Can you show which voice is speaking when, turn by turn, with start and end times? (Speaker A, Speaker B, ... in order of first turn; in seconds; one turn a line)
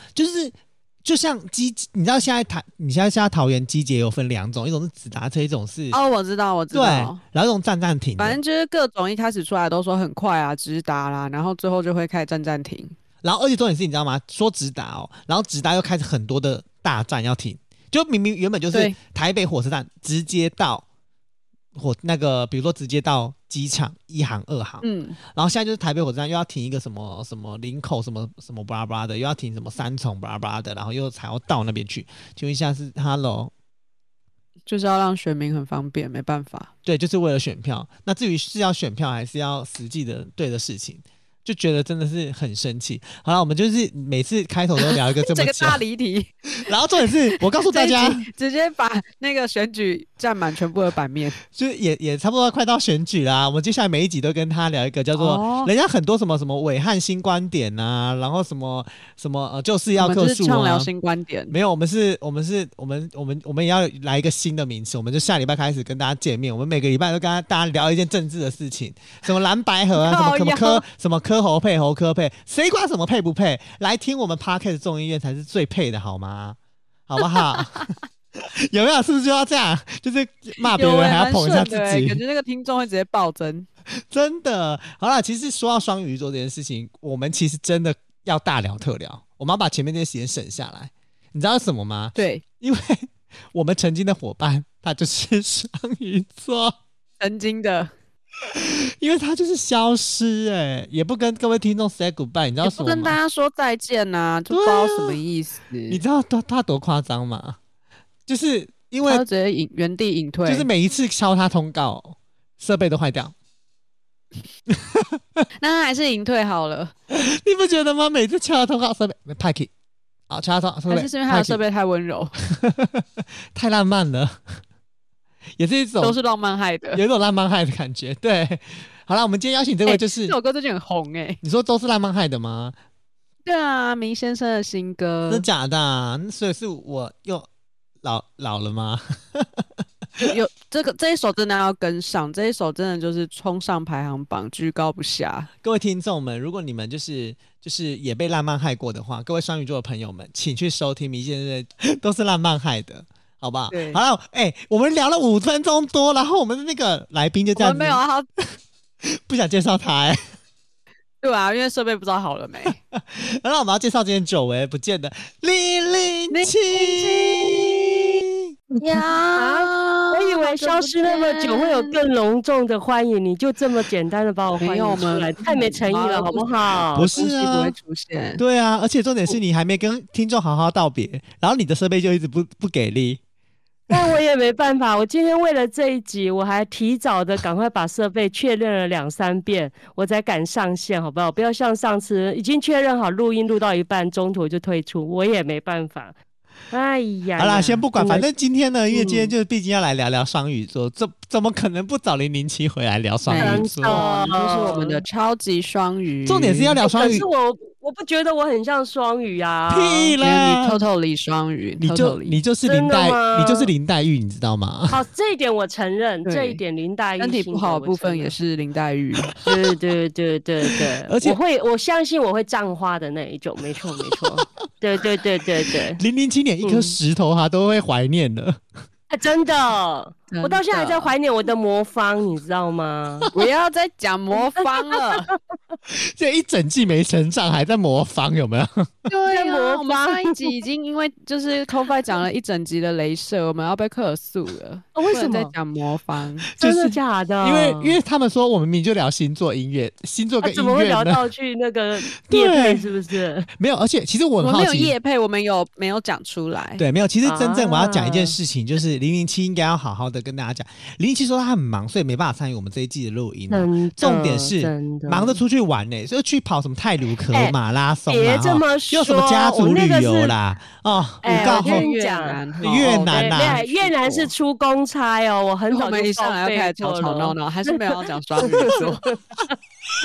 Speaker A: 0.2-6.0
Speaker B: 5.9-7.2
Speaker A: 6.7-8.4
Speaker B: 8.2-13.0
Speaker A: 13.2-20.9
Speaker A: 21.8-33.5
Speaker B: 24.8-25.2
Speaker B: 34.7-36.7
Speaker A: 36.9-45.8
Speaker B: 44.8-51.4
Speaker A: 46.5-48.3
Speaker A: 51.5-60.9
Speaker B: 55.1-55.7
Speaker B: 60.0-61.5
Speaker A: 61.5-76.6
Speaker B: 70.0-70.8
Speaker A: 77.1-82.2
Speaker B: 77.3-77.9
Speaker B: 80.7-83.7
Speaker A: 84.0-96.8
Speaker B: 92.2-92.4
Speaker B: 97.2-97.9
Speaker A: 98.5-103.2
Speaker B: 102.6-106.0
Speaker A: 104.5-105.2
Speaker A: 105.9-107.6
Speaker A: 108.3-109.2
Speaker B: 109.0-110.7
Speaker A: 110.5-113.3
Speaker A: 114.7-115.5
Speaker B: 115.6-116.9
Speaker A: 117.1-119.7
Speaker A: 120.3-121.6
Speaker B: 120.9-122.3
Speaker A: 122.4-124.6
Speaker A: 125.6-126.2
Speaker B: 126.0-127.0
Speaker A: 126.9-130.3
Speaker B: 129.9-131.4
Speaker A: 131.4-132.8
Speaker B: 133.4-135.5
Speaker A: 135.3-137.5
Speaker A: 138.0-139.7
Speaker B: 140.2-145.5
Speaker A: 145.6-158.0
Speaker B: 153.7-154.0
Speaker B: 157.6-158.3
Speaker A: 159.2-160.2
Speaker B: 161.2-162.8
Speaker A: 162.9-168.4
Speaker B: 166.3-168.1
Speaker B: 168.8-172.0
Speaker C: 168.9-177.1
Speaker B: 174.6-178.4
Speaker A: 176.9-177.7
Speaker A: 178.4-183.2
Speaker C: 183.9-196.2
Speaker C: 196.7-198.3
Speaker A: 197.4-204.0
Speaker B: 203.3-206.8
Speaker C: 203.4-205.0
Speaker A: 206.3-207.3
Speaker C: 206.8-210.2
Speaker A: 209.7-210.8
Speaker B: 210.2-212.4
Speaker A: 211.8-215.0
Speaker C: 212.7-213.7
Speaker C: 214.9-218.3
Speaker B: 216.2-216.6
Speaker B: 217.2-219.4
Speaker C: 219.4-226.0
Speaker A: 221.1-221.4
Speaker A: 226.0-228.6
Speaker C: 226.6-227.0
Speaker C: 229.1-233.3
Speaker B: 230.3-231.1
Speaker B: 233.3-235.3
Speaker C: 234.6-235.2
Speaker A: 235.9-239.1
Speaker B: 239.1-246.5
Speaker C: 239.3-240.5
Speaker C: 245.0-245.5
Speaker A: 246.5-251.3
Speaker C: 246.6-248.0
Speaker C: 250.4-253.5
Speaker A: 252.2-252.9
Speaker A: 253.5-254.9
Speaker B: 254.4-256.8
Speaker A: 256.8-271.8
Speaker C: 257.2-258.4
Speaker C: 263.5-265.4
Speaker C: 268.1-270.4
Speaker C: 271.2-279.5
Speaker B: 271.3-274.3
Speaker A: 272.6-273.6
Speaker B: 275.7-279.0